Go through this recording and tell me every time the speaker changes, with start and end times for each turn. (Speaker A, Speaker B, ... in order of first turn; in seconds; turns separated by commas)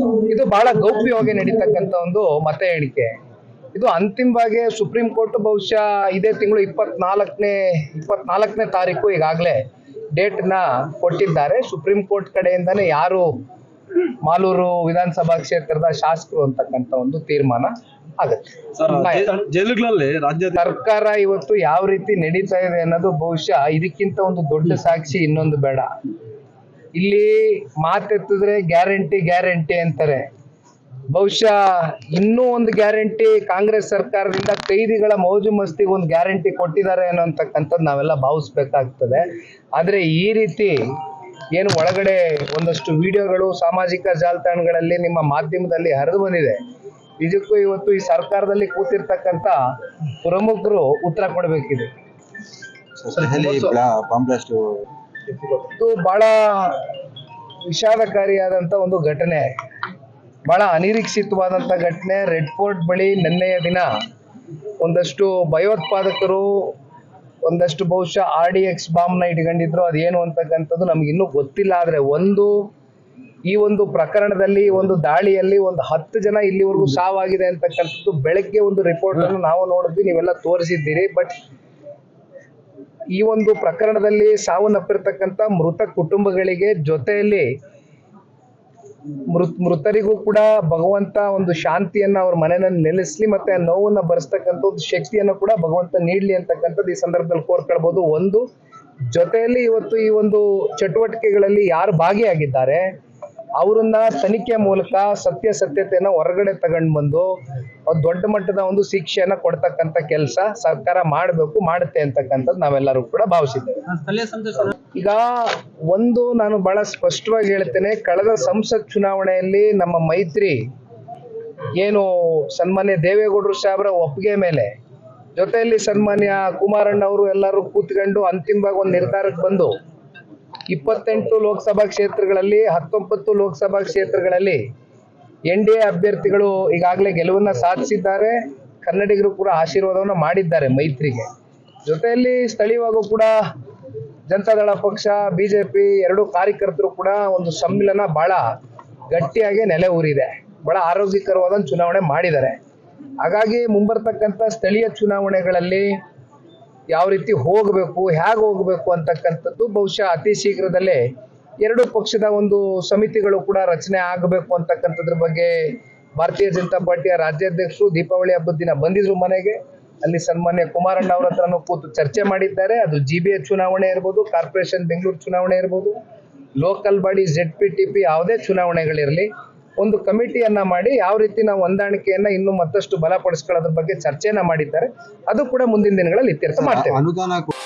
Speaker A: 0.2-3.1, Speaker A: 3.7-9.6, Speaker A: 10.1-13.3, Speaker A: 14.2-19.3, Speaker B: 18.8-20.6, Speaker A: 20.5-25.9, Speaker A: 26.9-30.3, Speaker A: 31.1-40.8, Speaker A: 41.5-46.6, Speaker A: 47.2-49.6, Speaker A: 50.2-51.9, Speaker C: 53.0-54.8, Speaker A: 55.7-56.9, Speaker A: 57.7-59.5, Speaker A: 60.5-63.9, Speaker A: 64.8-66.7, Speaker A: 67.4-72.5, Speaker A: 73.5-81.3, Speaker A: 83.1-87.5, Speaker A: 89.3-98.4, Speaker A: 99.1-102.8, Speaker A: 103.6-107.3, Speaker A: 107.9-113.8, Speaker B: 113.9-114.7, Speaker A: 114.9-120.6, Speaker A: 121.8-124.7, Speaker A: 125.3-129.8, Speaker A: 130.7-134.6, Speaker A: 135.5-141.3, Speaker A: 141.8-143.3, Speaker A: 144.3-148.4, Speaker A: 149.1-152.6, Speaker A: 153.2-155.9, Speaker A: 156.9-161.0, Speaker A: 161.6-165.6, Speaker A: 166.2-176.0, Speaker A: 176.6-179.3, Speaker A: 179.8-187.0, Speaker C: 186.6-187.5